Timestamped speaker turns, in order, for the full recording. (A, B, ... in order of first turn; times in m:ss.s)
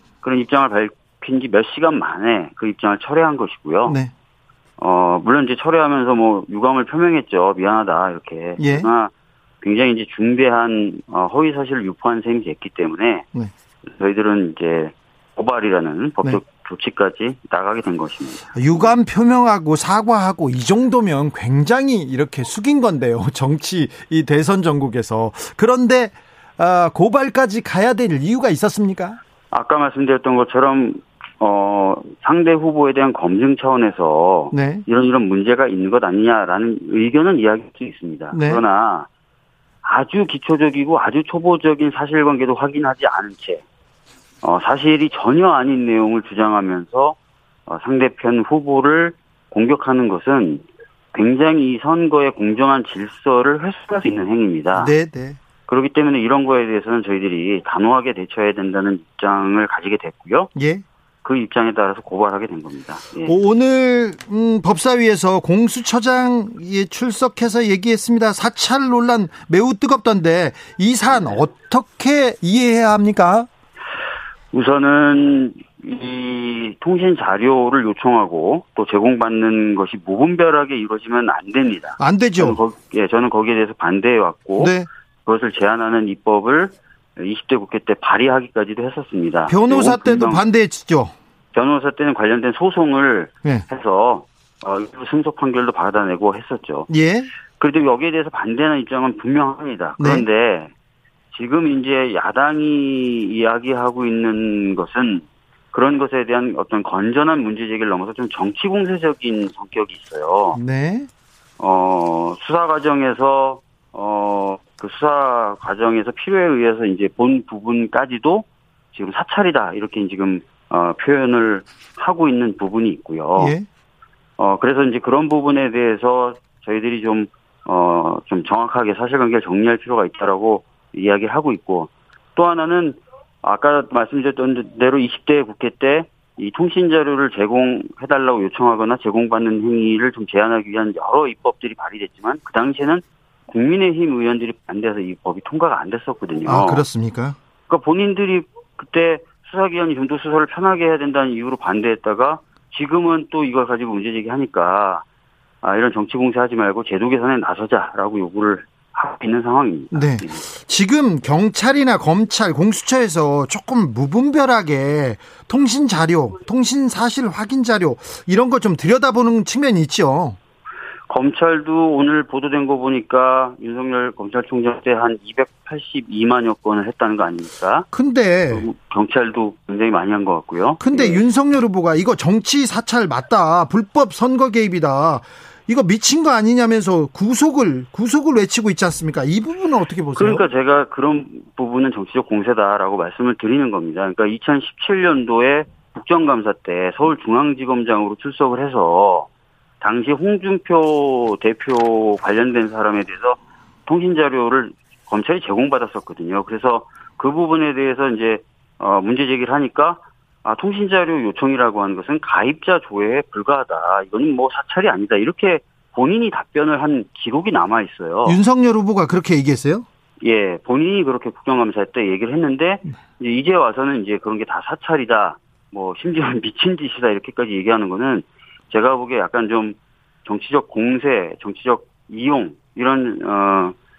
0:00.2-0:04.0 A
0:03.8-0:04.1 B
0:04.8-0:13.3 A
0:08.6-0:08.9 B
0:13.8-0:19.0 A
0:18.5-0:29.2 B
0:29.5-0:39.1 A
0:34.5-0:34.8 B
0:38.3-0:38.6 B
0:39.8-0:43.6 A
0:44.4-0:47.2 A
0:47.7-0:54.9 A
0:54.7-0:55.4 B
0:55.7-1:00.5 A
1:00.6-1:00.8 B
1:01.2-1:03.4 A
1:03.2-1:13.5 B
1:11.1-1:11.4 A
1:14.5-1:30.4 A
1:22.0-1:22.6 B
1:24.6-1:24.9 B
1:29.5-1:31.1 B
1:31.5-1:36.9 A
1:36.9-1:37.3 B
1:37.6-1:40.7 A
1:40.0-1:40.2 B
1:41.3-1:50.6 A
1:50.5-1:51.1 B
1:51.6-2:03.5 A
2:03.4-2:03.7 B
2:04.4-2:26.8 A
2:26.4-2:27.4 B
2:27.7-2:35.0 A
2:35.6-2:40.4 A
2:39.9-2:50.4 B
2:51.1-2:57.9 A
2:57.9-2:58.7 B
2:58.5-3:01.2 A
3:00.8-3:10.5 B
3:10.2-3:19.3 A
3:19.8-3:38.4 A
3:38.2-3:39.8 B
3:40.2-3:53.8 A